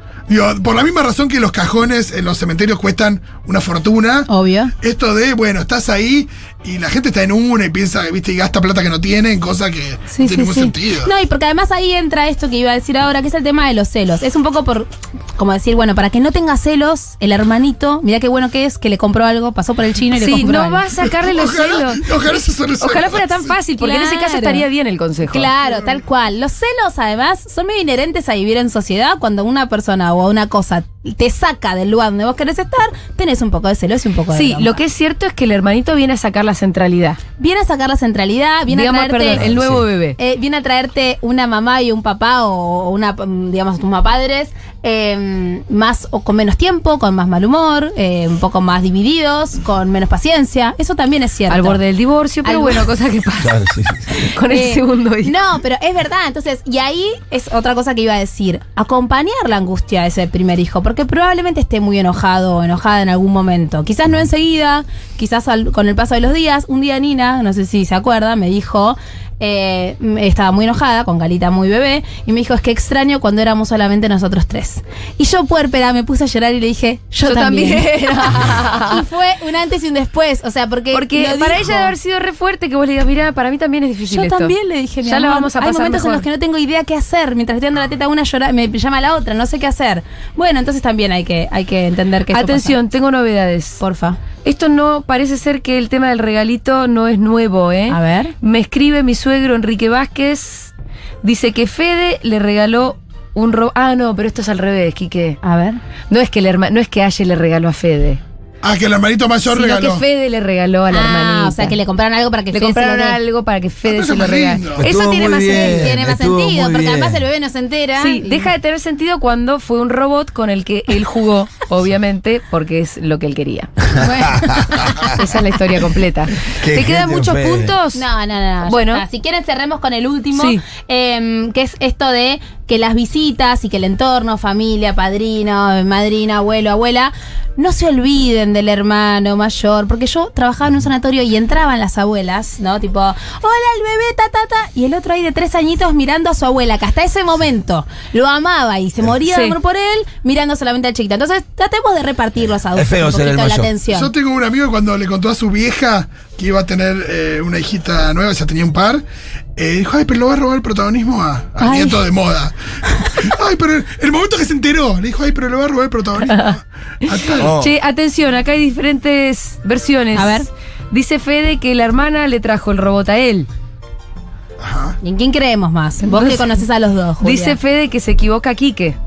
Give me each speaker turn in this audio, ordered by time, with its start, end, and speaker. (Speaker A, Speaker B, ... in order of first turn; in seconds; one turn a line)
Speaker A: 0.3-11.1
Speaker B: 4.3-4.7
Speaker B: 10.1-20.9
Speaker C: 20.1-22.1
Speaker A: 21.1-23.5
Speaker C: 22.8-25.5
Speaker B: 23.8-24.6
Speaker B: 25.3-34.8
Speaker C: 34.3-37.2
Speaker B: 37.4-39.5
Speaker C: 38.7-40.2
Speaker D: 39.3-39.8
Speaker B: 40.2-51.8
Speaker C: 51.5-53.6
Speaker B: 52.4-52.8
Speaker D: 53.4-54.1
Speaker C: 54.1-55.3
Speaker B: 54.5-81.9
Speaker C: 77.2-79.0
Speaker C: 80.9-86.2
Speaker B: 84.1-92.8
Speaker C: 92.3-93.8
Speaker B: 93.8-94.2
Speaker C: 94.4-100.7
Speaker B: 97.9-98.3
Speaker C: 101.2-105.4
Speaker B: 105.4-105.8
Speaker C: 106.1-108.2
Speaker A: 108.6-110.0
Speaker C: 109.5-111.8
Speaker B: 110.9-113.2
Speaker C: 112.5-114.8
Speaker A: 113.8-114.8
Speaker D: 114.8-117.2
Speaker B: 114.8-118.5
Speaker C: 115.4-115.8
Speaker C: 118.0-123.9
Speaker D: 124.0-125.2
Speaker B: 124.0-125.1
Speaker C: 125.0-128.0
Speaker D: 126.6-127.7
Speaker B: 127.9-154.1
Speaker C: 128.7-129.0
Speaker C: 130.3-130.6
Speaker C: 149.3-149.6
Speaker D: 152.7-153.7
Speaker A: 153.9-159.0
Speaker A: 159.6-167.5
Speaker B: 161.6-162.1
Speaker C: 166.2-166.6
Speaker C: 167.1-173.5
Speaker D: 167.4-167.7
Speaker B: 170.1-170.5
Speaker A: 174.6-175.0
Speaker B: 175.0-177.6
Speaker C: 176.0-176.6
Speaker C: 177.2-178.9